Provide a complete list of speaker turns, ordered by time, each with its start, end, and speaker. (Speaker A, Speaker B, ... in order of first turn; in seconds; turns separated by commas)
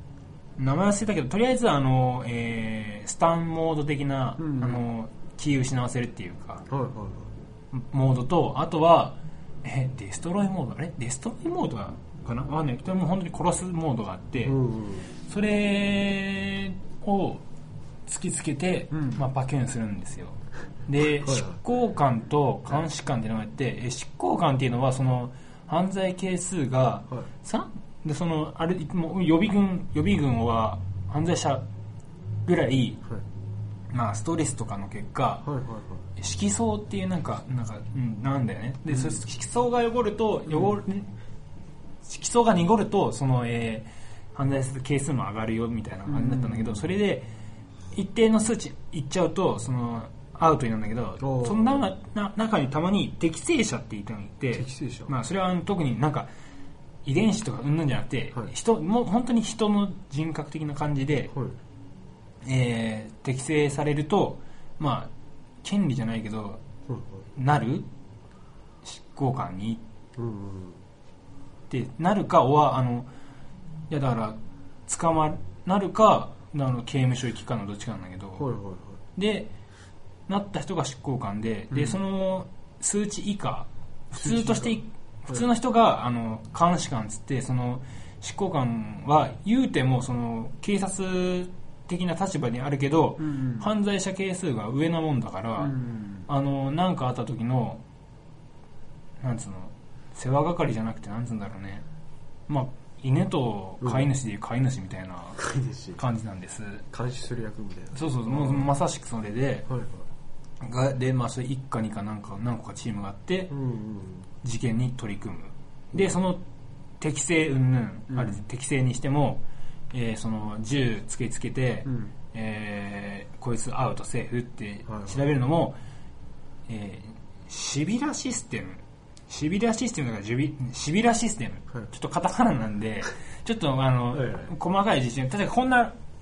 Speaker A: 0.6-6.7, Speaker B: 4.4-4.8, Speaker B: 6.7-7.3, Speaker A: 7.7-14.6, Speaker B: 14.4-15.1, Speaker A: 15.2-17.4, Speaker A: 18.1-31.6, Speaker B: 18.9-19.2, Speaker B: 21.2-21.6, Speaker A: 32.5-33.0, Speaker A: 33.9-35.5, Speaker B: 35.4-36.0, Speaker A: 36.2-41.1, Speaker B: 38.9-39.2, Speaker B: 40.5-40.7, Speaker A: 42.0-47.3, Speaker B: 46.1-46.9, Speaker A: 47.9-56.3, Speaker B: 51.2-51.9, Speaker B: 54.5-55.1, Speaker A: 57.0-61.3, Speaker A: 62.4-65.1, Speaker A: 65.6-66.6, Speaker B: 66.9-67.3, Speaker A: 67.4-67.9, Speaker A: 68.8-69.8, Speaker B: 70.2-70.8, Speaker A: 71.7-73.1, Speaker A: 73.9-78.5, Speaker B: 78.4-79.0, Speaker A: 79.2-79.5, Speaker A: 80.3-95.8, Speaker B: 81.7-82.0, Speaker B: 84.2-84.8, Speaker B: 93.2-93.7, Speaker B: 95.6-96.3, Speaker A: 96.3-97.8, Speaker A: 99.2-101.8, Speaker A: 102.5-105.4, Speaker B: 103.8-104.1, Speaker B: 105.4-106.0, Speaker A: 106.0-106.8, Speaker B: 106.9-108.7, Speaker A: 107.9-109.7, Speaker B: 109.7-110.1, Speaker A: 110.6-113.5, Speaker B: 113.5-114.3, Speaker A: 114.4-116.4, Speaker A: 117.0-125.8, Speaker B: 118.1-118.4, Speaker B: 121.9-122.1, Speaker B: 124.9-125.2, Speaker A: 126.7-135.9, Speaker B: 134.1-134.5